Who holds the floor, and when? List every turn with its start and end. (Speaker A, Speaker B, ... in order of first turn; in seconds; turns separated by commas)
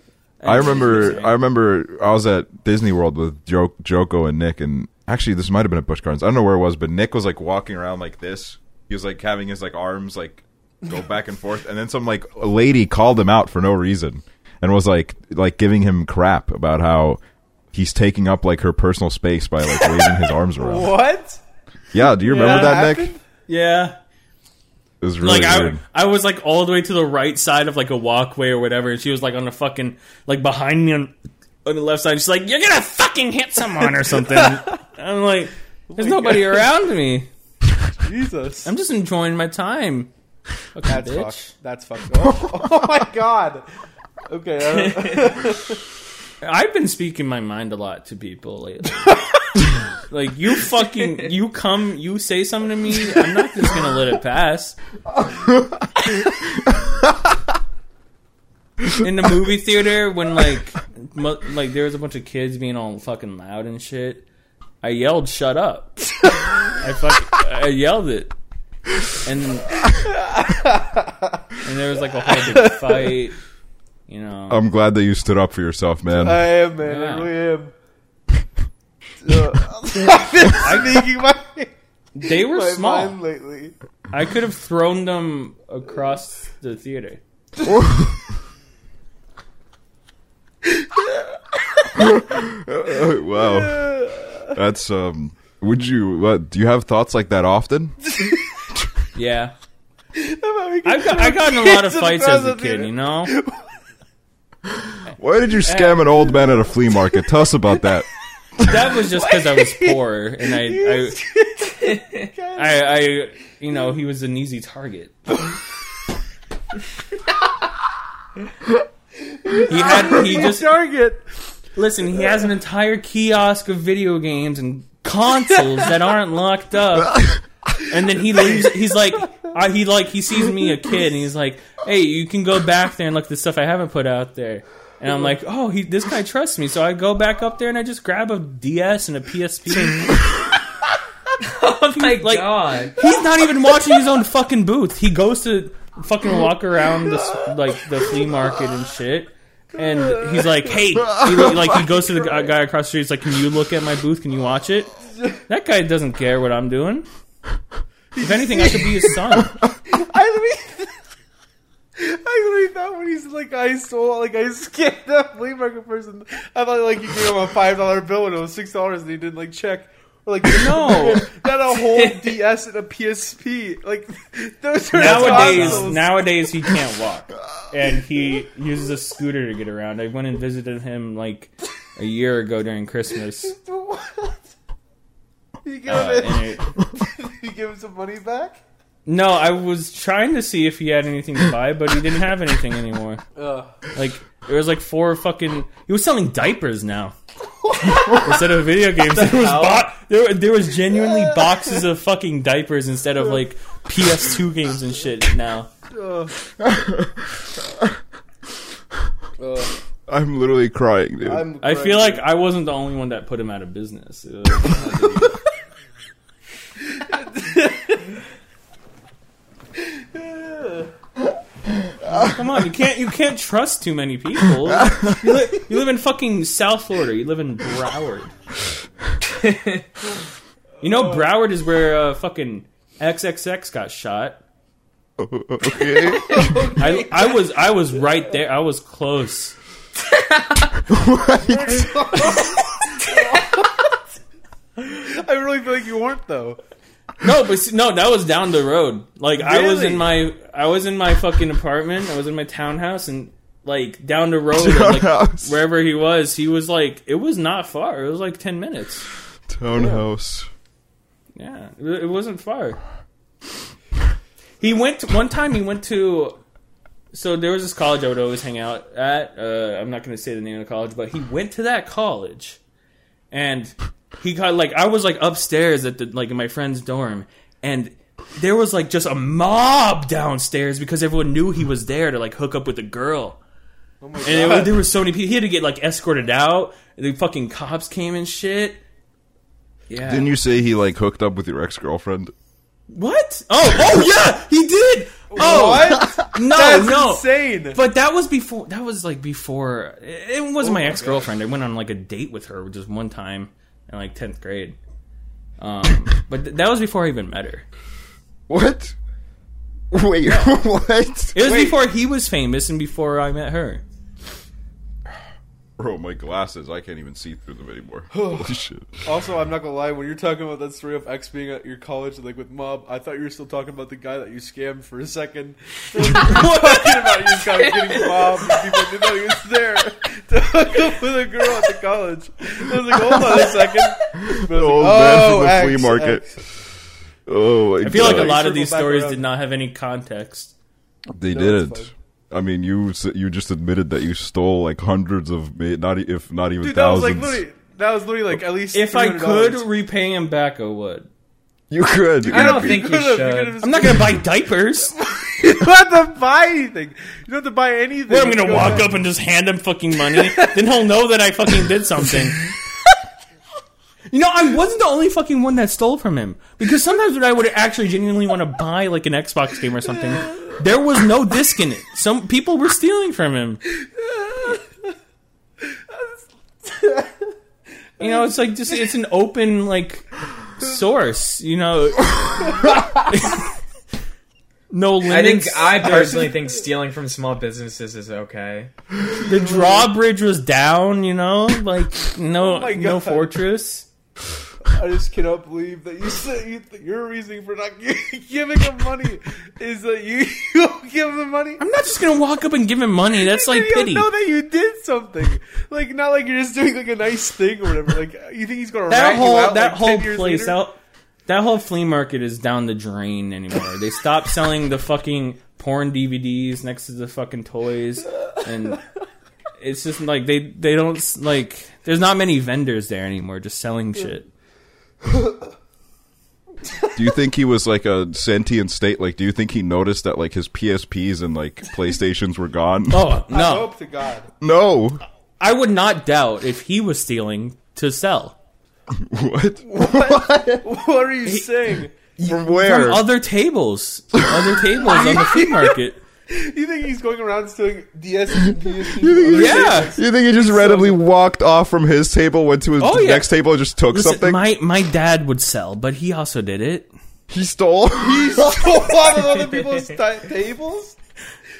Speaker A: 0.4-1.4, Speaker B: 0.4-17.2, Speaker B: 17.7-20.9, Speaker C: 20.6-21.4, Speaker B: 21.9-23.1, Speaker C: 22.2-23.2, Speaker A: 22.2-22.9, Speaker A: 23.5-24.0, Speaker B: 25.0-25.8, Speaker A: 25.2-31.1, Speaker A: 31.6-37.3, Speaker C: 34.3-34.6, Speaker C: 35.9-36.7, Speaker C: 38.0-38.7, Speaker A: 38.6-40.1, Speaker A: 40.7-41.5, Speaker C: 40.9-43.6, Speaker C: 44.3-45.8, Speaker A: 44.7-45.4, Speaker A: 46.4-49.2, Speaker A: 50.1-54.8, Speaker B: 55.3-55.8, Speaker A: 59.0-64.2, Speaker A: 64.8-68.3, Speaker A: 69.2-69.9, Speaker C: 69.9-71.6, Speaker A: 71.6-73.4, Speaker C: 72.3-73.2, Speaker A: 74.1-74.6, Speaker B: 74.5-76.5, Speaker C: 76.1-77.7, Speaker A: 76.8-77.3, Speaker C: 79.2-81.7, Speaker A: 80.5-81.1, Speaker A: 82.2-83.2, Speaker C: 82.2-83.8, Speaker A: 84.1-87.2, Speaker B: 87.6-88.2, Speaker C: 90.6-92.2, Speaker B: 92.0-94.0, Speaker C: 93.2-94.5, Speaker B: 94.5-98.1, Speaker C: 98.1-98.4, Speaker A: 99.2-99.5, Speaker C: 100.2-103.7, Speaker A: 100.8-103.3, Speaker B: 104.7-108.1, Speaker A: 105.7-106.3, Speaker A: 108.6-111.2, Speaker C: 109.0-112.9, Speaker A: 112.5-115.2, Speaker C: 119.2-121.3, Speaker A: 119.7-120.8, Speaker A: 121.8-127.3, Speaker A: 127.8-140.2, Speaker C: 128.3-128.8, Speaker D: 141.4-143.0, Speaker A: 141.9-154.9, Speaker C: 147.0-147.5, Speaker C: 148.2-148.6, Speaker C: 149.8-150.8, Speaker B: 151.0-151.8, Speaker C: 151.9-152.5, Speaker A: 155.5-157.1, Speaker C: 158.1-160.9, Speaker A: 158.2-159.6, Speaker C: 162.0-176.7, Speaker A: 170.4-171.3, Speaker D: 171.9-172.3, Speaker A: 174.9-183.5, Speaker D: 175.0-175.9, Speaker C: 183.4-184.5, Speaker C: 185.6-188.6, Speaker A: 185.9-186.8, Speaker A: 189.1-193.2, Speaker C: 193.4-193.8, Speaker A: 193.9-197.1, Speaker A: 197.8-205.7, Speaker D: 199.1-199.9, Speaker C: 201.0-201.8, Speaker C: 205.9-206.3, Speaker B: 206.6-207.9, Speaker C: 209.4-209.7, Speaker B: 210.1-211.5, Speaker C: 211.2-212.3, Speaker A: 211.6-215.4, Speaker C: 216.8-218.2, Speaker C: 219.8-220.9, Speaker A: 222.1-228.3, Speaker D: 229.3-229.8, Speaker C: 230.8-231.3, Speaker A: 230.8-234.4, Speaker B: 235.2-236.7, Speaker C: 236.0-237.4, Speaker A: 236.8-239.6, Speaker D: 240.4-240.7, Speaker B: 240.9-241.9, Speaker C: 241.3-243.8, Speaker C: 244.8-246.6, Speaker A: 247.2-259.1, Speaker C: 249.4-250.1, Speaker B: 254.6-255.6, Speaker B: 259.5-260.5, Speaker A: 261.4-262.8, Speaker A: 264.6-266.4, Speaker A: 267.1-272.6, Speaker A: 273.3-283.4, Speaker C: 284.0-284.8, Speaker A: 284.2-288.8, Speaker A: 289.9-290.3, Speaker B: 290.0-292.3, Speaker A: 292.9-304.8, Speaker C: 295.3-297.8, Speaker C: 300.6-301.3, Speaker A: 305.6-307.6, Speaker B: 308.5-308.9, Speaker B: 309.9-311.4, Speaker A: 310.2-310.6, Speaker A: 311.3-313.8, Speaker C: 311.4-311.8, Speaker B: 315.8-319.0, Speaker C: 318.1-318.5, Speaker C: 319.1-336.3, Speaker A: 326.0-328.2, Speaker B: 334.1-336.3, Speaker B: 337.3-338.4, Speaker A: 337.8-340.5, Speaker C: 337.9-339.2, Speaker B: 341.1-347.4, Speaker C: 341.3-341.9, Speaker C: 346.6-349.7, Speaker A: 348.7-351.1, Speaker B: 351.7-352.8, Speaker C: 352.2-354.2, Speaker D: 352.3-353.6, Speaker A: 353.6-354.9, Speaker C: 355.0-359.1, Speaker A: 358.1-362.5, Speaker A: 364.1-373.6, Speaker C: 373.8-374.9, Speaker C: 375.6-377.3, Speaker C: 378.0-378.8, Speaker A: 378.0-383.5, Speaker C: 382.5-383.0, Speaker A: 384.7-386.4, Speaker D: 385.1-388.7, Speaker C: 386.0-386.3, Speaker A: 389.1-393.9, Speaker C: 389.2-389.9, Speaker C: 392.4-393.3, Speaker C: 394.6-401.6, Speaker A: 401.6-404.1, Speaker C: 403.1-410.6, Speaker A: 408.9-418.8, Speaker A: 419.6-424.3, Speaker C: 425.0-425.5, Speaker B: 427.0-433.1, Speaker A: 432.9-433.7, Speaker C: 433.3-434.3, Speaker B: 434.4-435.0, Speaker A: 435.4-438.4, Speaker B: 438.9-440.6, Speaker C: 439.6-441.9, Speaker B: 442.2-443.1, Speaker A: 442.3-446.0, Speaker B: 444.1-444.5, Speaker C: 444.8-445.8, Speaker C: 446.3-451.0, Speaker B: 448.8-454.4, Speaker A: 449.3-450.0, Speaker A: 452.8-453.3, Speaker A: 453.9-456.9, Speaker B: 457.3-458.9, Speaker C: 458.0-461.0